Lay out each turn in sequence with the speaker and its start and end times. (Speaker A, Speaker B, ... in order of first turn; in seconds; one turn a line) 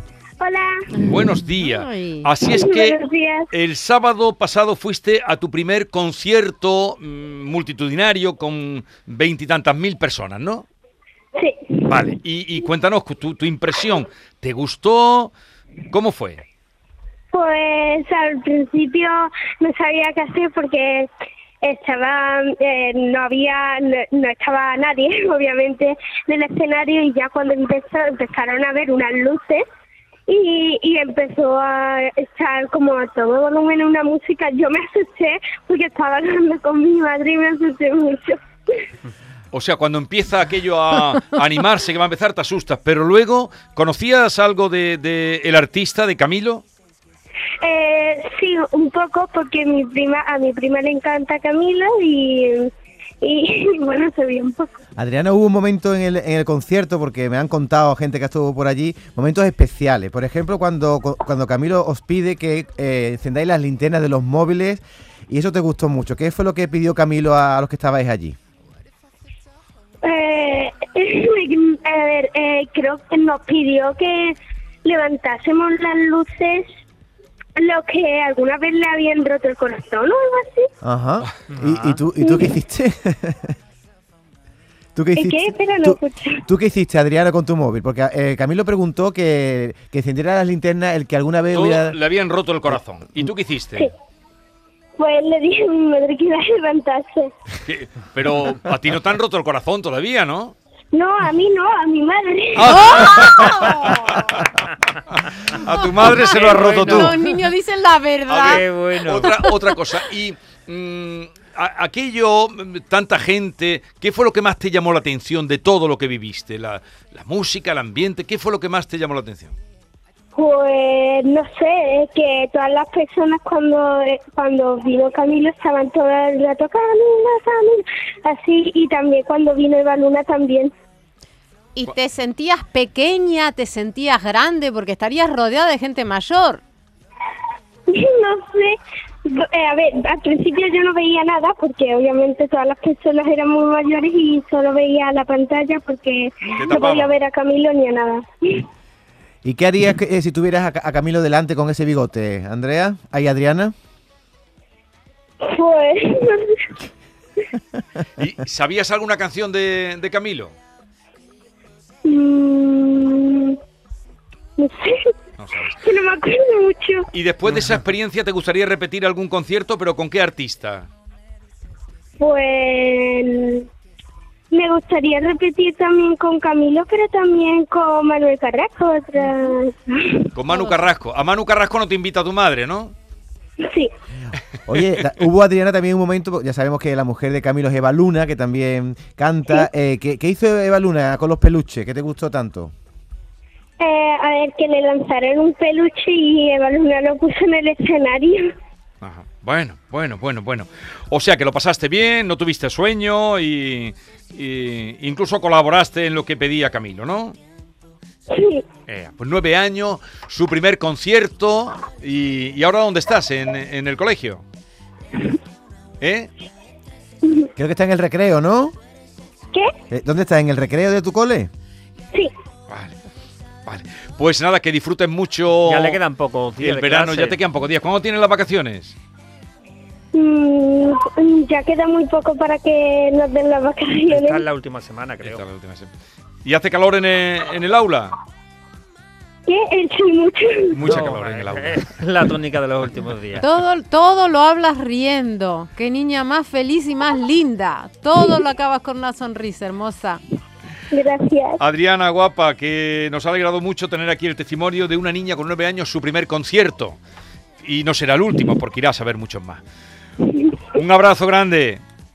Speaker A: 0.4-0.9
Speaker B: 1.0-2.3
Speaker C: 1.0-3.0
Speaker A: 2.5-3.5
Speaker C: 3.5-10.7
Speaker A: 11.4-11.8
Speaker C: 11.9-15.3
Speaker C: 15.9-16.4
Speaker A: 17.3-21.1
Speaker A: 21.6-29.6
Speaker A: 30.3-38.8
Speaker C: 39.5-46.6
Speaker A: 47.6-52.7
Speaker A: 53.2-54.8
Speaker D: 55.0-68.4
Speaker A: 70.0-76.7
Speaker A: 77.6-80.7
Speaker D: 80.8-83.5
Speaker E: 81.5-82.0
Speaker A: 82.2-82.5
Speaker D: 85.0-92.0
Speaker A: 85.2-86.4
Speaker C: 91.5-93.9
Speaker A: 95.0-97.3
Speaker C: 97.6-100.6
Speaker A: 100.9-103.2
Speaker C: 102.6-107.2
Speaker B: 102.7-104.1
Speaker B: 105.7-108.7
Speaker E: 105.9-107.4
Speaker C: 108.3-119.6
Speaker E: 108.4-109.4
Speaker B: 109.2-109.5
Speaker A: 120.3-130.7
Speaker B: 131.8-136.6
Speaker A: 137.9-148.7
Speaker C: 146.4-147.2
Speaker D: 149.4-153.7
Speaker A: 155.4-156.6
Speaker C: 158.2-160.6
Speaker A: 162.1-163.6
Speaker A: 164.6-165.0
Speaker C: 165.4-165.8
Speaker A: 165.8-167.1
Speaker C: 167.1-170.9
Speaker A: 172.2-173.7
Speaker A: 174.5-180.3
Speaker C: 180.3-182.9
Speaker B: 180.5-180.9
Speaker A: 183.6-183.9
Speaker D: 184.7-192.7
Speaker C: 184.8-185.0
Speaker A: 193.8-198.5
Speaker C: 199.0-207.4
Speaker A: 208.3-208.7
Speaker C: 208.9-214.4
Speaker C: 216.0-216.3
Speaker D: 217.6-218.8
Speaker D: 219.9-221.5
Speaker C: 222.7-223.0
Speaker C: 223.7-226.0
Speaker E: 225.6-227.4
Speaker C: 226.6-229.0
Speaker A: 230.1-234.5
Speaker E: 234.1-235.4
Speaker C: 235.2-235.9
Speaker C: 236.4-238.2
Speaker A: 239.5-240.8
Speaker C: 240.7-242.0
Speaker E: 240.8-243.4
Speaker B: 243.4-250.2
Speaker A: 250.9-251.6
Speaker C: 251.6-257.0
Speaker C: 257.6-259.6
Speaker C: 260.7-261.8